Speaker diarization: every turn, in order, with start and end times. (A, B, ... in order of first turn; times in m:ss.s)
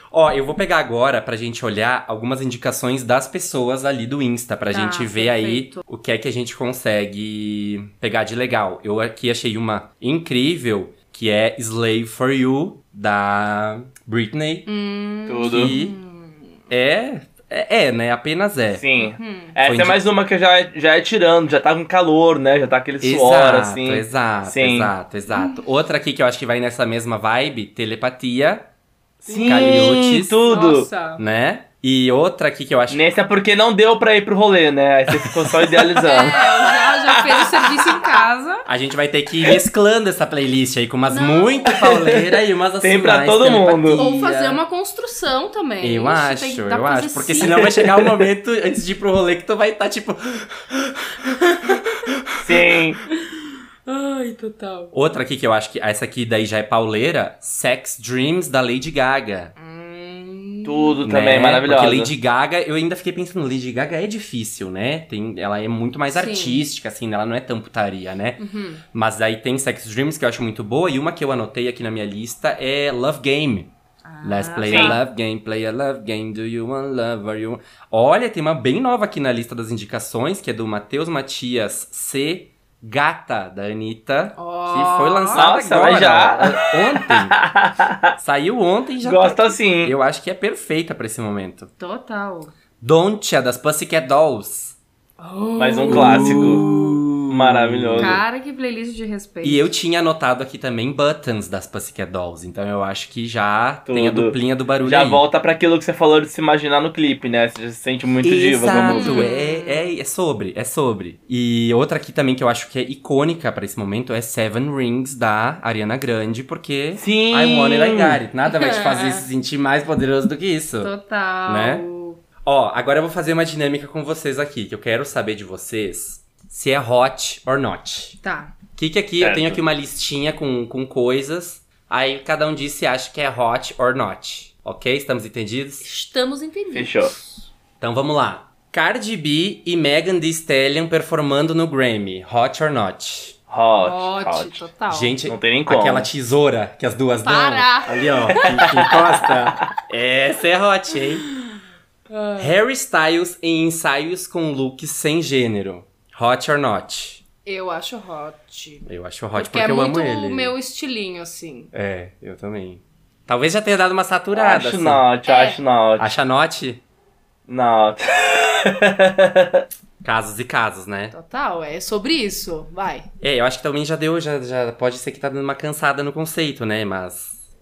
0:00.1-0:14.7 A
0:04.7-0:05.8 B
0:14.6-0:16.5 B
0:15.3-0:15.7 C
0:15.4-0:15.9 A
0:16.7-0:18.8 A
0:18.7-0:24.9 C
0:19.0-0:19.6 B
0:19.6-0:20.0 A
0:23.0-0:28.7 A
0:25.3-0:25.6 B
0:29.2-0:30.9 C
0:29.2-0:31.2 B
0:29.4-0:30.4 A
0:31.2-0:33.0 A
0:32.9-0:37.7 C
0:35.1-0:35.8 A
0:36.0-0:38.6 B
0:38.6-0:44.6 A
0:41.1-0:41.8 B
0:41.7-0:44.0 C
0:43.9-0:47.7 B
0:45.8-0:52.7 A
0:47.4-0:48.2 C
0:52.4-0:53.0 C
0:53.1-0:54.9 B
0:54.9-0:59.5 A
0:59.6-1:01.0 B
1:00.6-1:02.1 C
1:01.0-1:08.4 A
1:06.1-1:06.6 B
1:08.4-1:08.8 B
1:08.9-1:13.7 A
1:14.0-1:15.0 B
1:14.2-1:27.4 A
1:14.7-1:14.9 C
1:24.4-1:25.4 B
1:25.3-1:28.1 C
1:28.2-1:31.7 A
1:29.0-1:30.0 C
1:31.8-1:32.5 B
1:32.8-1:34.8 A
1:35.2-1:37.0 B
1:35.6-1:36.6 C
1:35.9-1:38.2 A
1:37.3-1:38.2 C
1:38.0-1:39.7 B
1:39.4-1:45.2 A
1:43.9-1:49.3 C
1:48.2-2:00.9 A
1:48.7-1:49.9 B
1:57.0-1:58.2 C
1:58.4-1:59.2 B
2:00.8-2:02.2 B
2:01.4-2:01.8 A
2:02.4-2:08.2 A
2:08.2-2:08.5 B
2:08.8-2:15.8 A
2:09.2-2:09.6 C
2:15.8-2:17.4 B
2:16.7-2:17.1 C
2:17.8-2:23.4 A
2:23.5-2:24.7 C
2:23.8-2:25.2 B
2:24.9-2:31.2 A
2:25.3-2:26.1 C
2:27.2-2:29.0 B
2:28.4-2:29.6 C
2:31.2-2:31.5 B
2:32.1-2:32.6 B
2:32.4-2:37.2 A
2:37.4-2:41.7 B
2:38.8-2:40.5 A
2:41.7-2:45.0 A
2:44.3-2:46.1 C
2:45.2-2:45.6 B
2:46.0-2:46.8 A
2:47.5-2:49.6 C
2:50.0-2:51.1 A
2:51.1-2:53.0 B
2:53.2-2:57.4 A